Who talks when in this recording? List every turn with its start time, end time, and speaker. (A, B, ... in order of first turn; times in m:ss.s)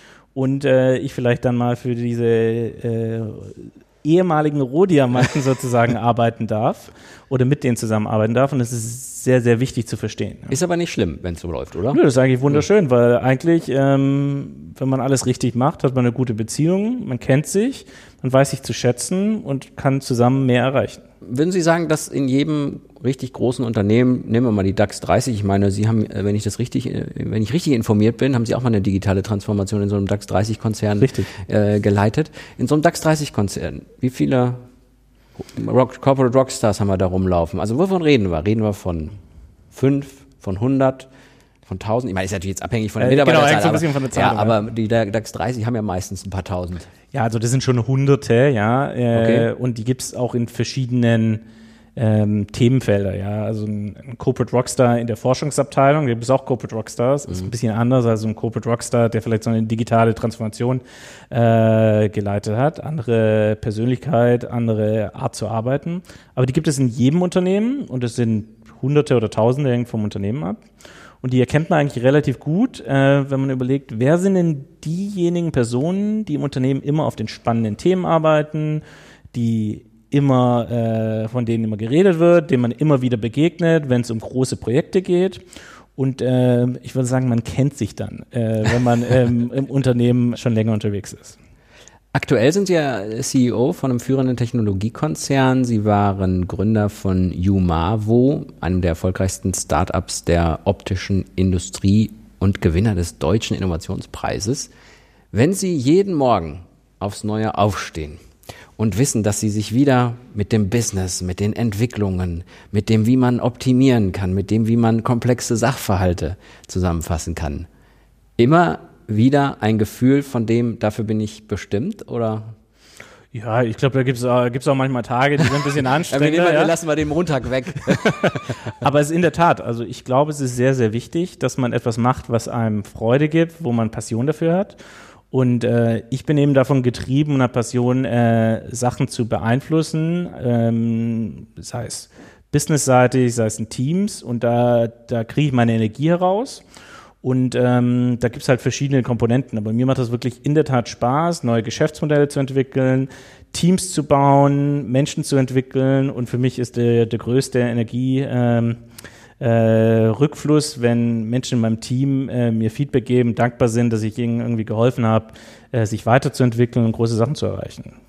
0:00.4-0:10.6 A
0:10.5-0:12.0 B
0:11.9-0:21.0 A
0:21.2-0:34.6 B
0:31.0-0:31.3 A
0:35.4-0:39.1 B
0:39.7-0:41.1 B
0:41.7-0:46.9 B
0:43.0-0:44.6 A
0:47.1-0:51.4 A
0:49.1-0:49.5 B
0:52.0-1:10.6 A
1:11.2-1:18.8 A
1:19.3-1:25.4 A
1:26.0-1:31.4 A
1:32.1-1:44.7 B
1:45.3-1:48.2 B
1:48.8-1:57.7 B
1:58.4-2:02.5 B
2:03.3-2:06.8 A
2:06.1-2:08.5 B
2:08.0-2:14.8 A
2:15.3-2:26.6 A
2:27.2-2:38.8 A
2:39.4-2:47.9 A